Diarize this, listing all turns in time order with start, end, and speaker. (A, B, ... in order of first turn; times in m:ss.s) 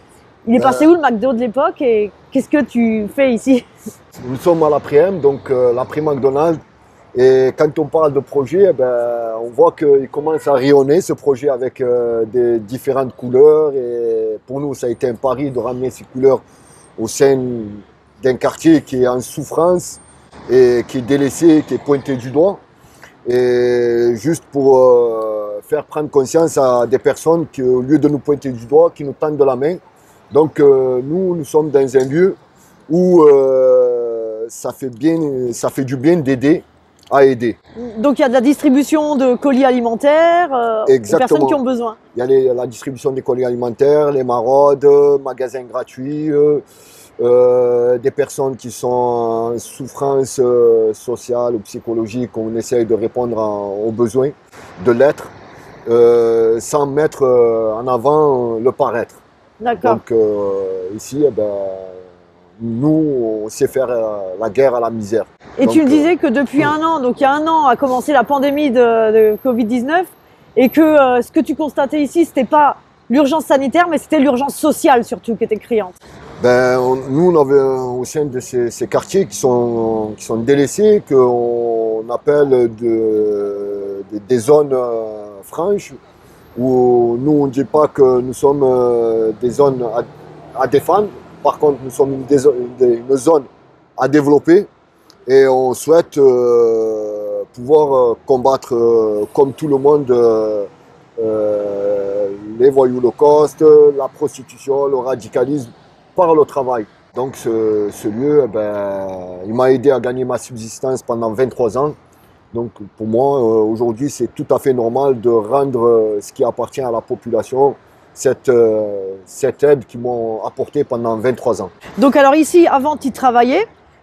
0:00.5-0:03.7 A
0:00.6-0:00.9 B
0:04.2-0:06.6 B
0:07.1-0:16.4 B
0:17.0-0:22.6 B
0:23.3-0:29.8 B
0:30.3-0:32.4 B
0:32.9-0:37.6 B
0:37.8-0:42.0 A
0:40.9-0:41.6 B
0:42.1-0:46.6 B
0:47.2-0:55.3 B
0:55.9-0:59.2 B
0:59.6-1:00.0 A
0:59.8-1:02.0 B
1:02.6-1:06.7 B
1:05.6-1:16.0 A
1:16.4-1:26.0 B
1:26.6-1:33.5 B
1:34.0-1:34.7 B
1:35.3-1:52.0 B
1:52.5-2:01.7 B
2:02.0-2:03.7 A